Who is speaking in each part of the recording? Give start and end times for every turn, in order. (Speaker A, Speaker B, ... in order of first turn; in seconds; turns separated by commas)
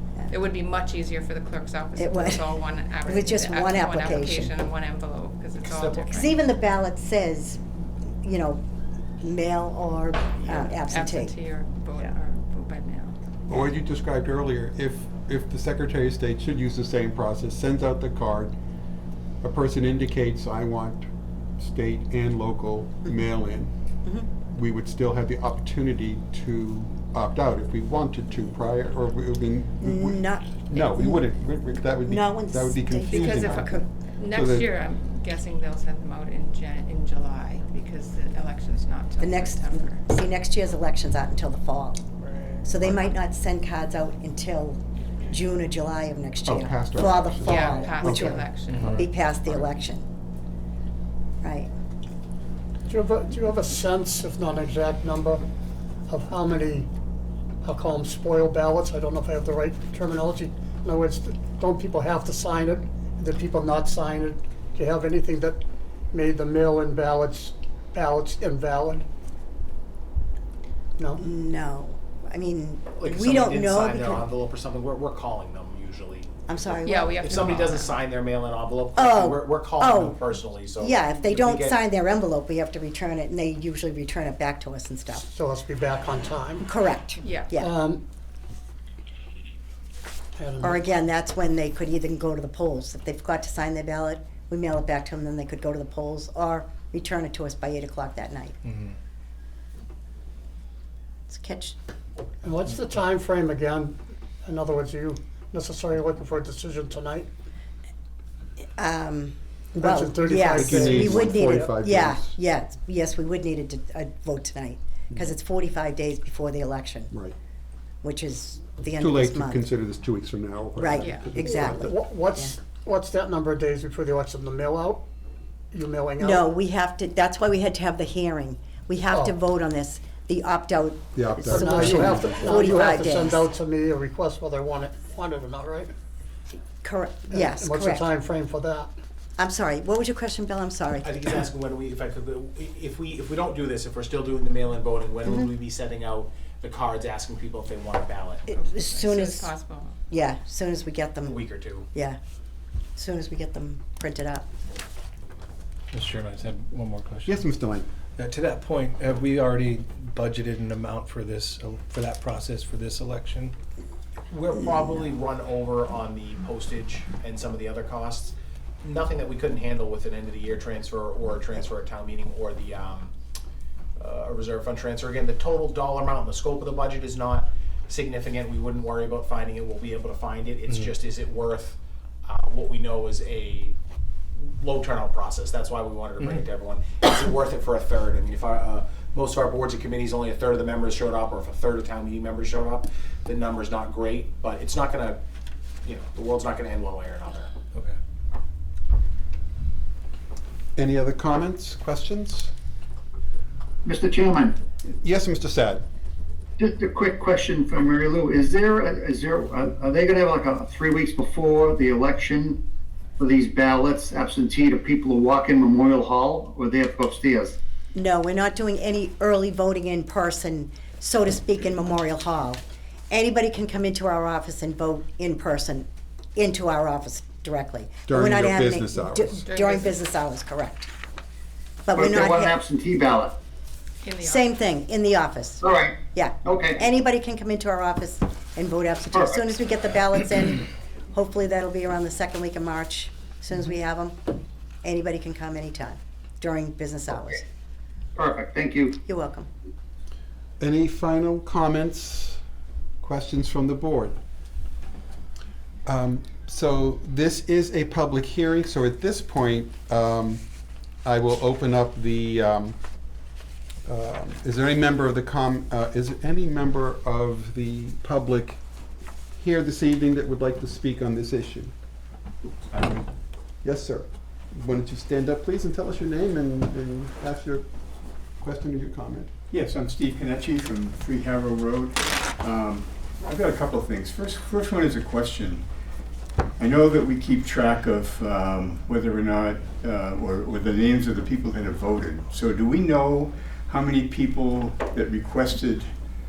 Speaker A: 0.3-6.3, Speaker B: 1.9-2.5, Speaker B: 3.0-4.5, Speaker C: 5.6-6.1, Speaker B: 6.1-7.6, Speaker B: 8.2-8.6, Speaker B: 9.2-11.4, Speaker A: 10.4-13.2, Speaker D: 13.5-18.5, Speaker D: 19.4-23.7, Speaker D: 24.4-34.7, Speaker B: 29.8-31.2, Speaker B: 32.0-33.9, Speaker A: 33.1-40.1, Speaker B: 39.2-42.0, Speaker B: 42.6-50.0, Speaker D: 46.4-49.1, Speaker A: 47.4-48.9, Speaker B: 51.4-51.7, Speaker E: 52.9-55.4, Speaker E: 56.1-56.9, Speaker E: 57.6-65.6, Speaker E: 66.1-69.0, Speaker B: 71.2-74.3, Speaker C: 73.0-76.3, Speaker B: 76.5-77.3, Speaker A: 76.8-78.0, Speaker C: 77.0-81.8, Speaker B: 79.0-80.2, Speaker B: 80.8-85.2, Speaker E: 85.1-86.6, Speaker B: 86.6-87.7, Speaker A: 87.2-87.6, Speaker E: 87.6-88.0, Speaker E: 90.4-90.8, Speaker B: 90.6-98.5, Speaker B: 101.3-101.8, Speaker E: 102.4-107.3, Speaker B: 108.8-117.1, Speaker E: 109.8-111.7, Speaker D: 110.3-112.3, Speaker D: 117.1-117.3, Speaker B: 118.0-119.7, Speaker D: 119.0-121.9, Speaker B: 120.8-122.5, Speaker A: 121.0-121.3, Speaker E: 121.3-125.0, Speaker E: 125.7-126.5, Speaker B: 126.2-133.5, Speaker D: 131.1-132.7, Speaker E: 131.5-135.9, Speaker B: 136.8-138.1, Speaker E: 137.3-138.9, Speaker B: 139.4-141.1, Speaker C: 141.0-148.5, Speaker A: 148.5-150.0, Speaker B: 148.5-149.5, Speaker B: 150.1-152.2, Speaker C: 151.2-151.9, Speaker B: 152.9-154.5, Speaker F: 155.9-157.4, Speaker D: 157.2-157.9, Speaker F: 158.2-163.5, Speaker C: 164.3-173.1, Speaker C: 173.9-183.8, Speaker C: 184.4-195.2, Speaker C: 195.8-197.5, Speaker D: 200.8-202.5, Speaker G: 203.8-204.6, Speaker D: 205.0-205.8, Speaker G: 206.6-212.6, Speaker G: 213.2-217.6, Speaker B: 217.9-230.9, Speaker D: 228.1-229.5, Speaker A: 229.4-230.0, Speaker B: 231.8-232.6, Speaker G: 231.9-233.3, Speaker A: 234.0-234.5, Speaker B: 234.2-244.2, Speaker G: 235.6-236.8, Speaker G: 239.1-239.4, Speaker B: 244.8-247.4, Speaker G: 248.2-249.0, Speaker B: 249.1-249.5, Speaker D: 250.6-252.4, Speaker D: 253.0-254.2, Speaker D: 255.8-260.4, Speaker D: 261.0-262.8, Speaker D: 263.9-268.6, Speaker D: 269.4-271.7, Speaker D: 273.6-277.6, Speaker D: 278.4-279.3, Speaker H: 279.5-285.6, Speaker H: 286.6-295.9